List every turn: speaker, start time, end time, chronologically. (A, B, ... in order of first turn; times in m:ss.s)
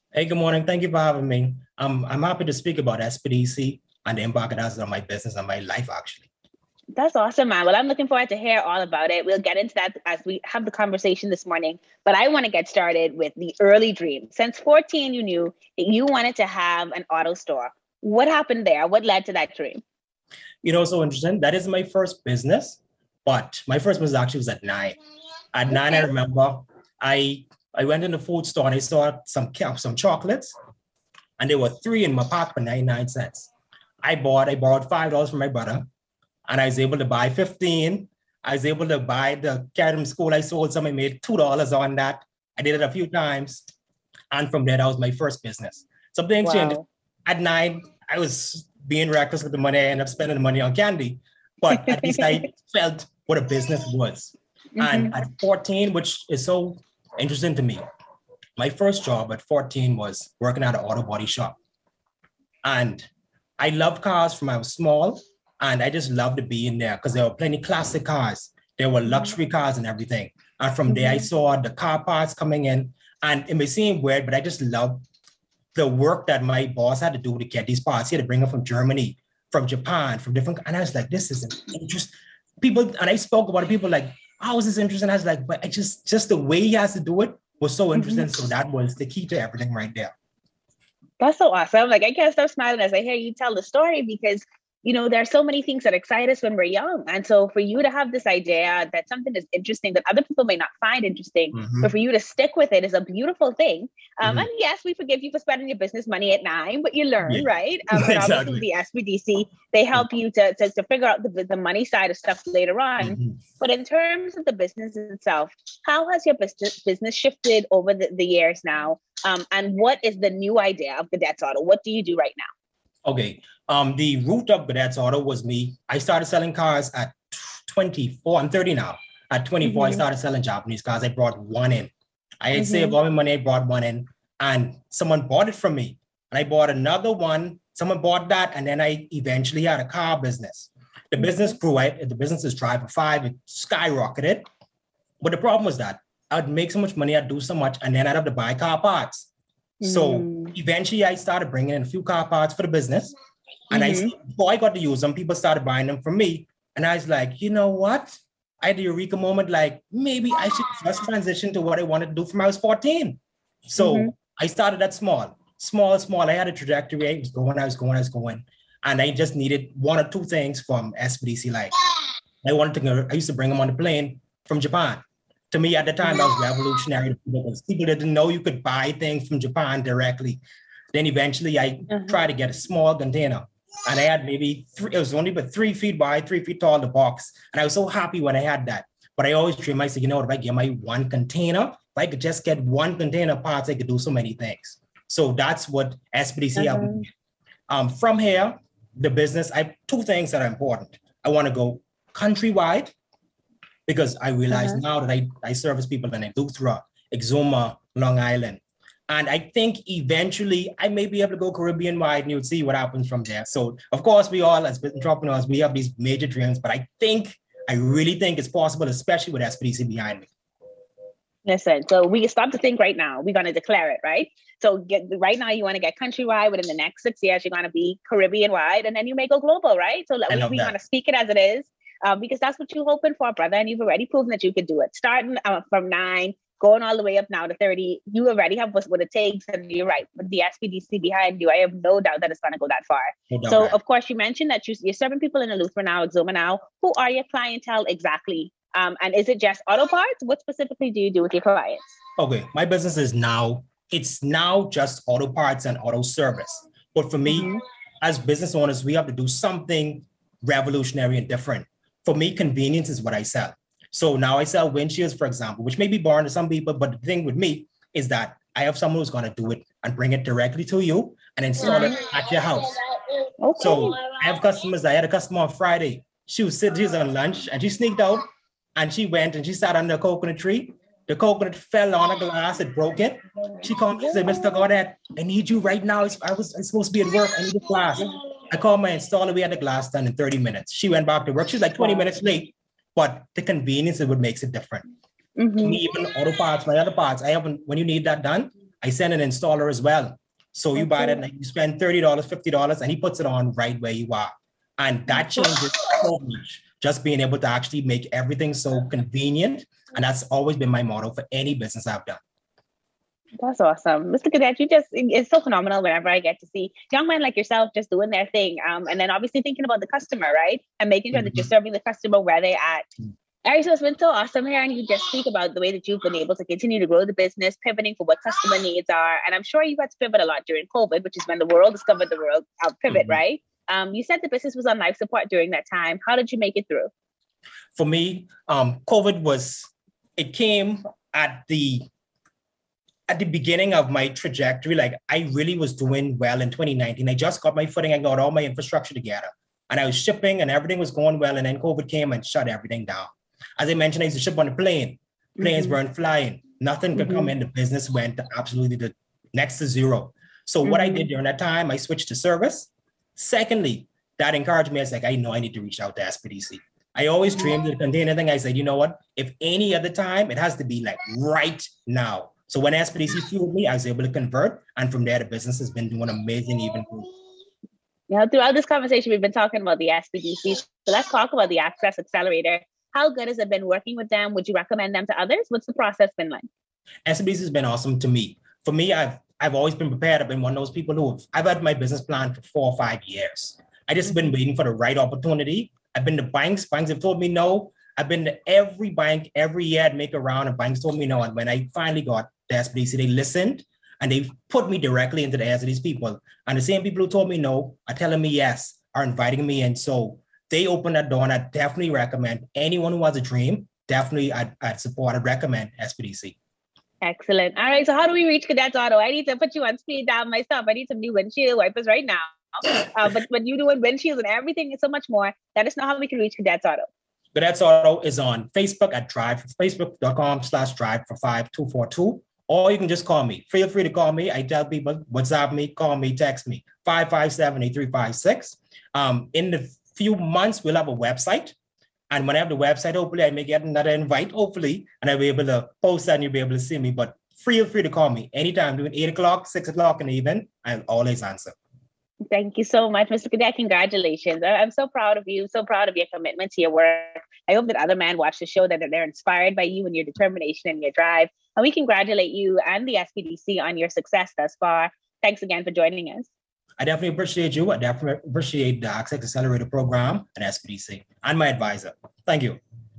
0:00.1-0:06.3 A
0:07.0-0:19.8 B
0:20.6-0:25.0 A
0:25.5-0:30.6 A
0:31.4-0:33.5 A
0:34.0-0:35.9 A
0:36.5-0:43.6 A
0:44.3-0:57.8 A
0:46.4-0:46.8 B
0:51.7-0:52.3 B
0:54.8-0:55.1 B
0:58.6-1:01.6 A
1:02.6-1:03.1 A
1:03.6-1:15.0 A
1:10.9-1:11.3 B
1:15.8-1:30.1 A
1:28.0-1:28.3 B
1:31.2-2:02.5 B
1:41.5-1:41.9 A
1:44.2-1:44.5 A
1:47.2-1:48.6 A
1:53.0-1:53.4 A
2:03.0-2:24.5 A
2:09.6-2:10.0 B
2:12.6-2:13.0 B
2:21.2-2:21.5 B
2:25.2-2:29.3 A
2:29.8-2:30.6 B
2:29.8-2:33.2 A
2:33.7-2:51.7 A
2:33.7-2:34.1 B
2:43.8-2:44.1 B
2:52.4-3:00.4 A
2:56.0-2:56.3 B
3:00.9-3:17.1 A
3:01.9-3:02.2 B
3:16.6-3:17.0 B
3:17.7-3:22.9 A
3:23.9-3:40.3 A
3:24.5-3:24.8 B
3:41.4-4:11.8 B
3:50.3-3:50.8 A
4:03.3-4:03.8 A
4:12.2-4:32.8 A
4:17.3-4:17.6 B
4:31.6-4:32.0 B
4:33.4-4:34.0 B
4:33.6-4:54.8 A
4:51.8-4:52.0 B
4:55.4-4:55.8 B
4:55.6-5:12.2 A
5:00.8-5:01.2 B
5:05.1-5:05.5 B
5:13.4-5:22.8 B
5:21.1-5:21.5 A
5:23.4-5:36.9 B
5:32.9-5:33.2 A
5:37.7-5:41.9 A
5:43.1-6:17.1 A
5:55.4-5:55.8 B
5:57.0-5:57.3 B
6:00.6-6:01.1 B
6:18.1-6:26.5 B
6:27.0-6:56.4 A
6:34.1-6:34.3 B
6:57.0-7:06.9 B
7:07.4-7:21.6 A
7:22.1-7:31.6 A
7:32.3-7:46.3 B
7:46.8-7:52.6 A